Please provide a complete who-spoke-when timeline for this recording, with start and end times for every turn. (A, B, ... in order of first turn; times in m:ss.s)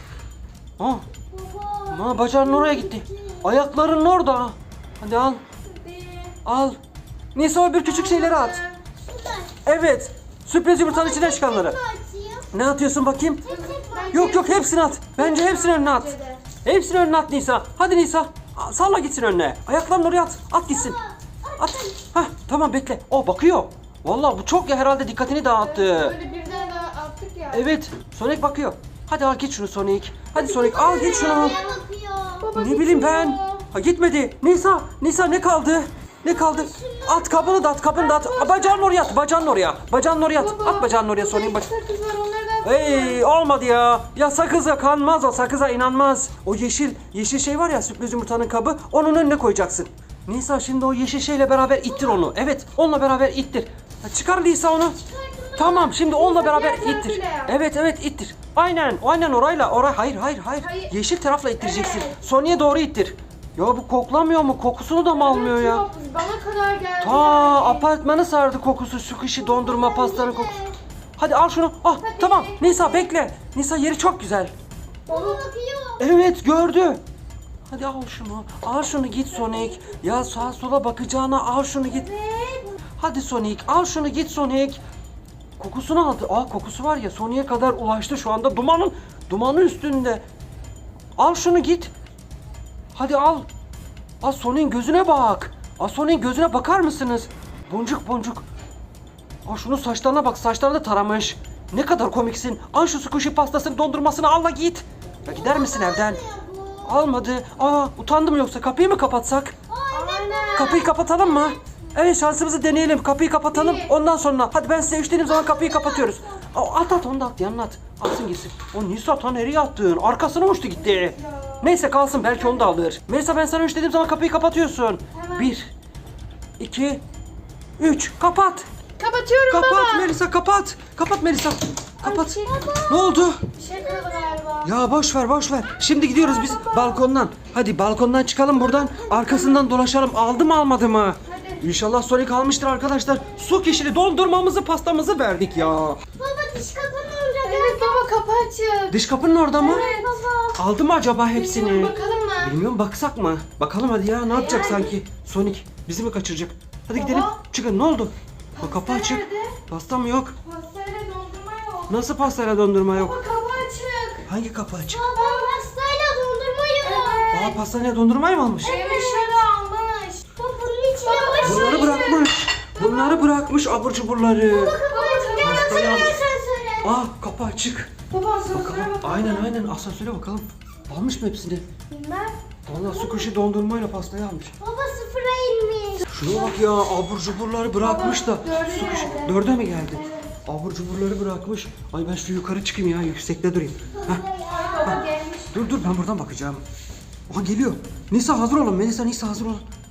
0:00.8-0:01.0 A
0:01.3-0:03.5 B
0:01.9-0:05.4 A
0:05.6-0:06.4 C
0:06.4-0:06.8 A
0:07.3-0:08.6 A
0:07.8-0:08.8 C
0:09.0-0:09.5 B
0:09.6-0:11.8 A
0:10.8-0:12.5 B
0:12.5-0:13.4 A
0:13.4-0:14.4 B
0:13.4-0:16.4 C
0:14.1-0:16.1 A
0:16.6-0:21.0 A
0:20.7-0:22.0 B
0:21.6-0:26.2 A
0:25.6-0:27.6 C
0:26.1-0:26.9 B
0:27.5-0:31.6 A
0:30.4-0:32.5 B
0:30.8-0:31.8 C
0:32.4-0:33.6 C
0:32.5-0:41.7 A
0:36.2-0:39.1 B
0:40.4-0:43.2 C
0:42.6-0:55.0 A
0:55.1-0:57.6 C
0:55.1-0:55.5 B
0:55.6-1:05.9 A
1:00.6-1:00.9 C
1:01.6-1:02.3 C
1:05.1-1:07.9 C
1:07.0-1:10.6 A
1:09.4-1:10.7 B
1:11.2-1:14.5 A
1:11.9-1:13.1 C
1:15.0-1:16.0 B
1:15.1-1:15.5 C
1:16.0-1:17.0 A
1:17.7-1:22.1 A
1:19.3-1:19.9 C
1:21.9-1:22.8 B
1:23.0-1:24.8 A
1:25.6-1:30.2 A
1:31.2-1:31.9 A
1:32.9-1:33.5 A
1:34.2-1:38.4 A
1:39.4-1:46.2 A
1:45.2-1:47.0 B
1:46.8-1:49.6 A
1:49.7-1:51.6 B
1:49.9-1:50.8 C
1:50.5-2:05.7 A
1:53.5-1:53.9 C
1:55.2-1:56.5 B
2:00.8-2:02.7 C
2:05.1-2:05.5 C
2:06.6-2:07.0 A
2:07.8-2:08.7 A
2:09.0-2:10.1 C
2:09.5-2:13.4 A
2:12.0-2:14.7 C
2:13.6-2:14.4 B
2:14.6-2:26.0 A
2:16.0-2:17.0 C
2:18.5-2:19.7 B
2:21.2-2:21.7 C
2:26.2-2:28.1 B
2:27.4-2:29.0 C
2:28.9-2:29.8 A
2:29.6-2:30.6 B
2:29.6-2:30.1 C
2:30.6-2:40.4 A
2:31.3-2:32.6 C
2:34.3-2:34.9 C
2:36.9-2:37.4 C
2:38.6-2:39.6 C
2:40.4-2:41.9 C
2:41.9-2:43.2 A
2:42.9-2:44.2 C
2:44.3-2:45.0 A
2:44.8-2:47.5 B
2:45.1-2:45.6 C
2:46.8-2:47.5 C
2:47.3-2:48.7 A
2:48.6-2:50.2 C
2:48.6-2:49.4 B
2:50.4-2:52.0 B
2:51.0-2:53.1 C
2:51.4-2:54.8 A
2:54.5-2:57.0 B
2:54.8-2:56.1 C
2:55.4-2:56.2 A
2:56.8-2:57.9 A
2:58.1-2:59.5 C
2:58.5-3:01.6 A
3:01.9-3:02.4 C
3:02.7-3:04.5 A
3:04.6-3:06.2 B
3:06.1-3:14.2 A
3:07.8-3:10.3 C
3:13.9-3:15.0 B
3:14.5-3:15.5 C
3:14.8-3:16.6 A
3:17.3-3:19.7 A